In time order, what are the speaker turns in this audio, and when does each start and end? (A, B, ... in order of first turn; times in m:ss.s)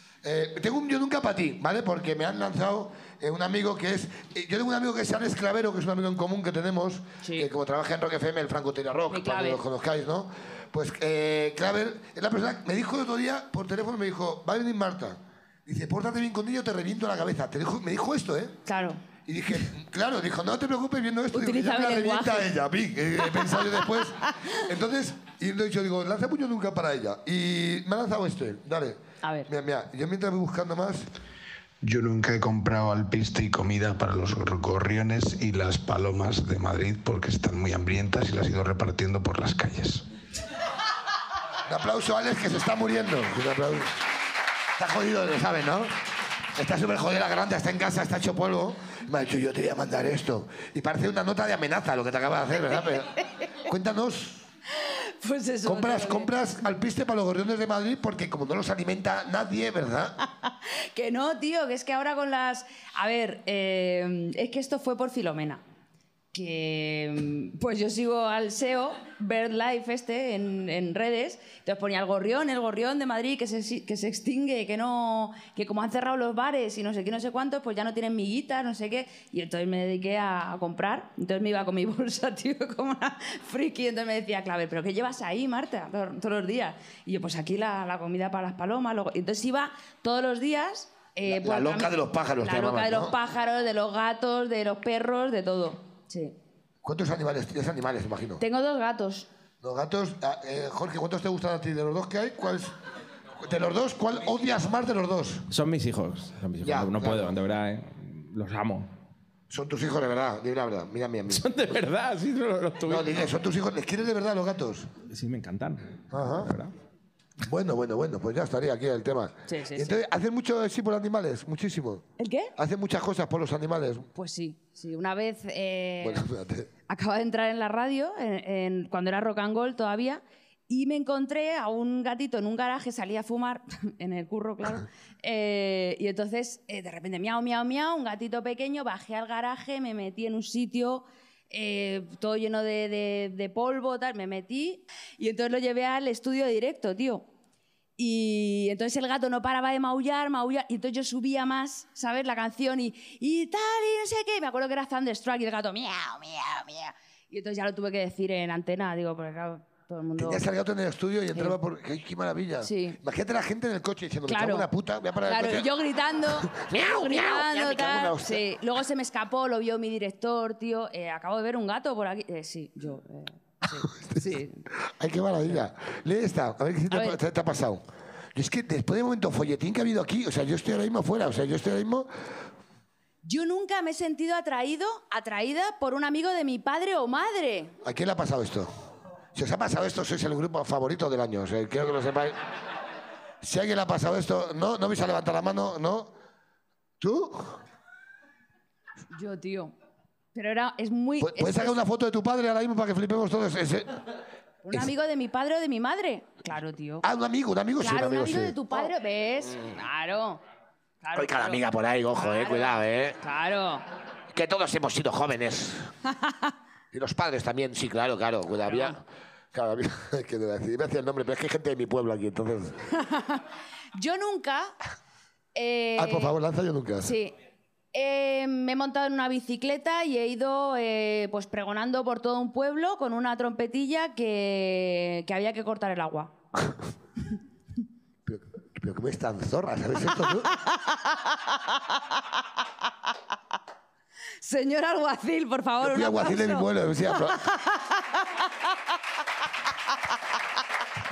0:00.2-0:18.6 A
0:07.2-0:07.5 B
0:09.1-0:09.6 B
0:18.7-0:19.0 B
0:19.3-0:31.0 A
0:21.3-0:22.5 B
0:23.4-0:23.6 B
0:29.2-0:29.5 B
0:31.8-0:40.0 C
0:41.6-0:44.0 A
0:44.8-0:45.9 A
0:46.6-0:54.5 A
0:54.8-0:56.3 B
0:55.6-1:00.2 A
1:00.4-1:05.6 B
1:06.3-1:36.4 B
1:31.2-1:33.2 A
1:36.8-1:38.4 A
1:38.4-1:39.3 B
1:39.6-1:42.7 A
1:43.4-1:45.5 A
1:45.5-1:48.9 D
1:46.6-1:47.4 A
1:49.5-1:51.6 A
1:51.3-1:53.2 D
1:52.8-1:54.9 A
1:55.1-1:56.7 D
1:56.1-1:56.6 A
1:57.4-2:02.0 A
1:59.5-2:00.0 B
2:02.2-2:02.5 B
2:02.6-2:04.1 A
2:04.2-2:06.3 B
2:06.0-2:06.7 A
2:06.9-2:27.3 B
2:28.0-2:40.4 B
2:40.2-2:45.7 A
2:42.6-2:43.0 B
2:44.3-2:44.7 B
2:45.2-2:54.6 B
2:46.3-2:48.4 A
2:54.0-2:57.8 A
2:56.9-2:57.2 B
2:58.4-3:02.1 A
3:03.2-3:07.8 B
3:07.8-3:08.7 A
3:09.4-3:12.4 A
3:13.4-3:16.1 A
3:17.0-3:17.6 A
3:19.1-3:19.7 B
3:20.3-3:21.8 B
3:21.2-3:24.0 A
3:24.6-3:27.1 B
3:27.0-3:28.9 A
3:27.8-3:30.4 B
3:31.0-3:33.8 B
3:31.2-3:33.2 A
3:34.3-3:35.9 A
3:36.1-3:36.5 B
3:36.9-3:42.9 A
3:38.7-3:39.0 B
3:42.9-3:43.4 B
3:44.0-3:44.8 B
3:45.6-3:46.4 B
3:46.0-3:47.1 A
3:47.0-3:47.3 B
3:47.9-3:56.3 B
3:58.3-4:00.6 A
4:00.9-4:01.7 B
4:04.4-4:08.4 B
4:05.8-4:07.4 A